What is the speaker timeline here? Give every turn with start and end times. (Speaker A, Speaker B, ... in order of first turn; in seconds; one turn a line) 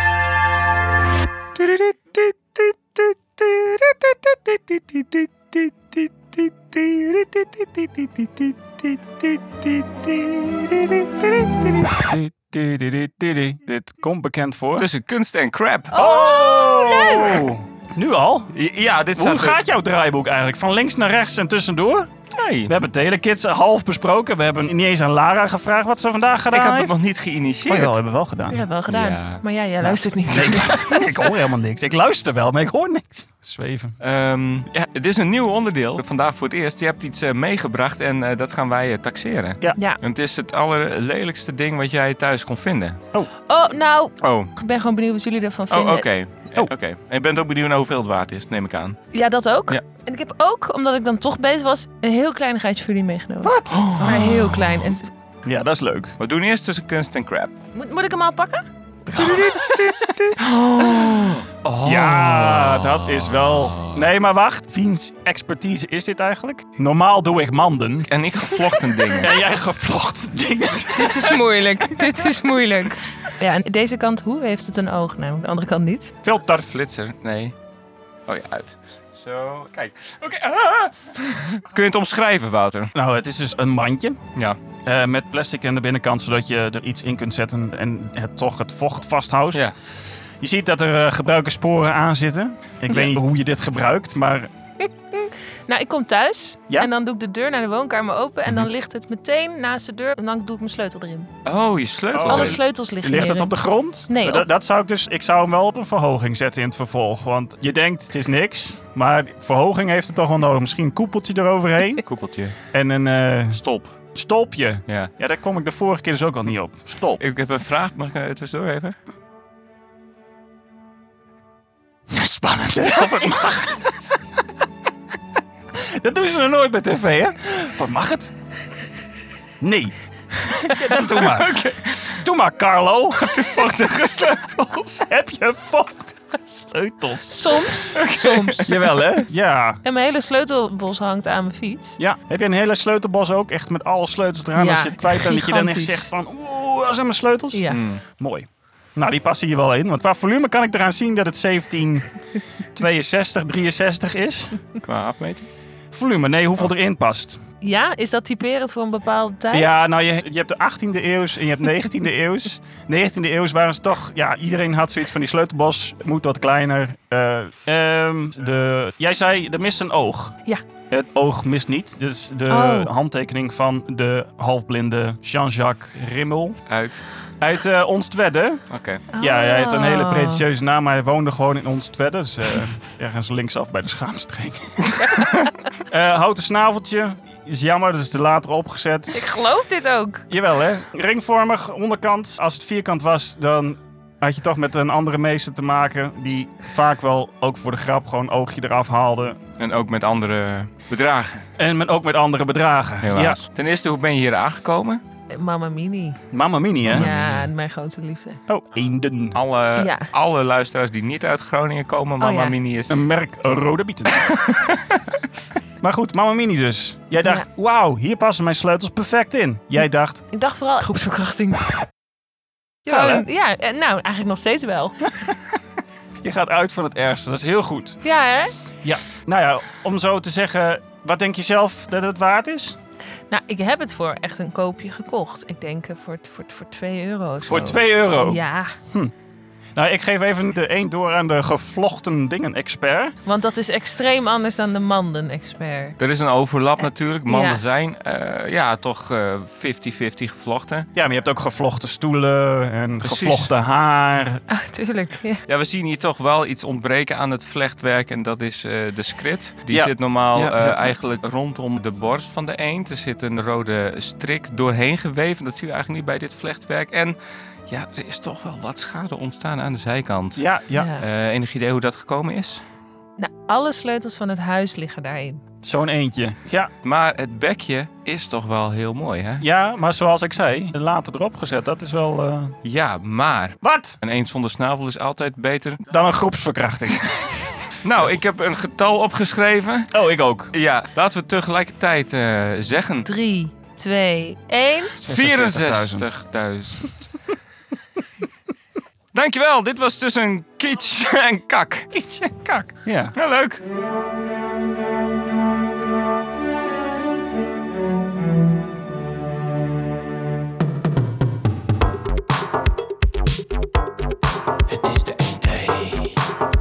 Speaker A: 1.6-12.0
Speaker B: 11.9-14.9
Speaker A: 14.8-15.9
Speaker C: 15.9-17.5
Speaker B: 15.9-18.5
Speaker A: 18.5-19.6
Speaker B: 19.2-22.1
Speaker A: 22.3-22.7
Speaker B: 22.7-27.0
Speaker A: 26.5-28.0
Speaker B: 27.7-28.6
Speaker C: 28.5-31.3
Speaker A: 28.9-29.4
Speaker B: 29.8-34.0
Speaker A: 34.0-43.0
Speaker C: 43.5-46.1
Speaker A: 44.2-44.5
Speaker A: 45.7-49.0
Speaker C: 49.1-55.1
Speaker B: 53.4-54.5
Speaker A: 53.7-54.9
Speaker B: 55.4-56.1
Speaker A: 56.2-57.5
Speaker C: 57.7-58.7
Speaker B: 59.1-60.0
Speaker A: 59.2-64.0
Speaker C: 59.2-60.1
Speaker B: 61.8-68.1
Speaker A: 68.1-69.3
Speaker B: 69.2-72.4
Speaker C: 70.9-76.1
Speaker B: 76.2-76.7
Speaker A: 76.6-77.5
Speaker A: 78.3-82.9
Speaker B: 82.9-84.2
Speaker B: 84.8-89.6
Speaker B: 90.4-94.5
Speaker C: 94.8-101.3
Speaker A: 101.5-102.6
Speaker B: 102.1-112.0
Speaker C: 102.3-103.6
Speaker C: 104.1-104.5
Speaker A: 112.1-112.5
Speaker B: 112.7-113.6
Speaker A: 113.5-114.0
Speaker B: 114.1-117.2
Speaker A: 117.2-119.0
Speaker B: 122.1-124.2
Speaker B: 125.7-128.3
Speaker B: 129.6-133.3
Speaker A: 131.0-132.2
Speaker A: 133.2-135.1
Speaker B: 135.1-137.4
Speaker C: 137.3-138.7
Speaker A: 137.7-139.0
Speaker B: 138.6-139.8
Speaker C: 139.8-142.0
Speaker B: 142.0-152.1
Speaker C: 144.6-146.1
Speaker C: 147.5-147.8
Speaker A: 147.7-148.0
Speaker B: 152.8-154.6
Speaker A: 154.8-155.5
Speaker B: 155.9-157.4
Speaker C: 157.6-159.7
Speaker B: 159.5-170.4
Speaker B: 170.9-176.6
Speaker C: 172.5-172.9
Speaker A: 176.7-177.0
Speaker B: 177.4-178.6
Speaker A: 178.7-179.0
Speaker C: 179.1-180.4
Speaker B: 179.2-185.2
Speaker C: 185.0-185.5
Speaker B: 185.8-189.1
Speaker C: 189.1-190.3
Speaker B: 190.3-199.4
Speaker A: 199.6-201.5
Speaker B: 201.6-203.4
Speaker A: 203.0-205.0
Speaker C: 205.3-206.2
Speaker B: 206.3-207.1
Speaker A: 206.9-207.5
Speaker C: 206.9-208.4
Speaker B: 208.5-209.4
Speaker A: 209.3-213.0
Speaker C: 209.8-210.1
Speaker C: 212.2-212.6
Speaker B: 212.9-214.3
Speaker A: 214.1-215.0
Speaker B: 215.8-220.2
Speaker C: 220.3-221.8
Speaker B: 222.8-223.2
Speaker C: 222.9-225.1
Speaker B: 226.2-228.0
Speaker C: 228.0-228.5
Speaker B: 228.8-232.8
Speaker C: 233.3-238.8
Speaker B: 237.4-239.1
Speaker B: 239.8-243.2
Speaker C: 243.3-246.0
Speaker A: 246.0-250.9
Speaker C: 247.3-247.6
Speaker B: 250.9-254.4
Speaker A: 253.0-253.5
Speaker C: 254.5-255.4
Speaker A: 255.5-267.2
Speaker B: 259.7-260.9
Speaker A: 267.7-270.4
Speaker B: 270.4-270.9
Speaker C: 270.7-271.0
Speaker A: 271.0-272.6
Speaker C: 273.2-275.4
Speaker B: 275.6-276.7
Speaker A: 276.8-279.5
Speaker B: 279.4-282.6
Speaker A: 282.6-285.8
Speaker B: 283.6-284.0
Speaker B: 285.9-287.6
Speaker A: 287.8-289.9
Speaker B: 289.9-290.5
Speaker A: 290.5-293.1
Speaker C: 293.1-295.0
Speaker B: 295.0-296.1
Speaker A: 295.0-297.0
Speaker A: 299.1-301.9
Speaker B: 301.9-303.1
Speaker A: 303.2-303.6
Speaker A: 314.7-316.1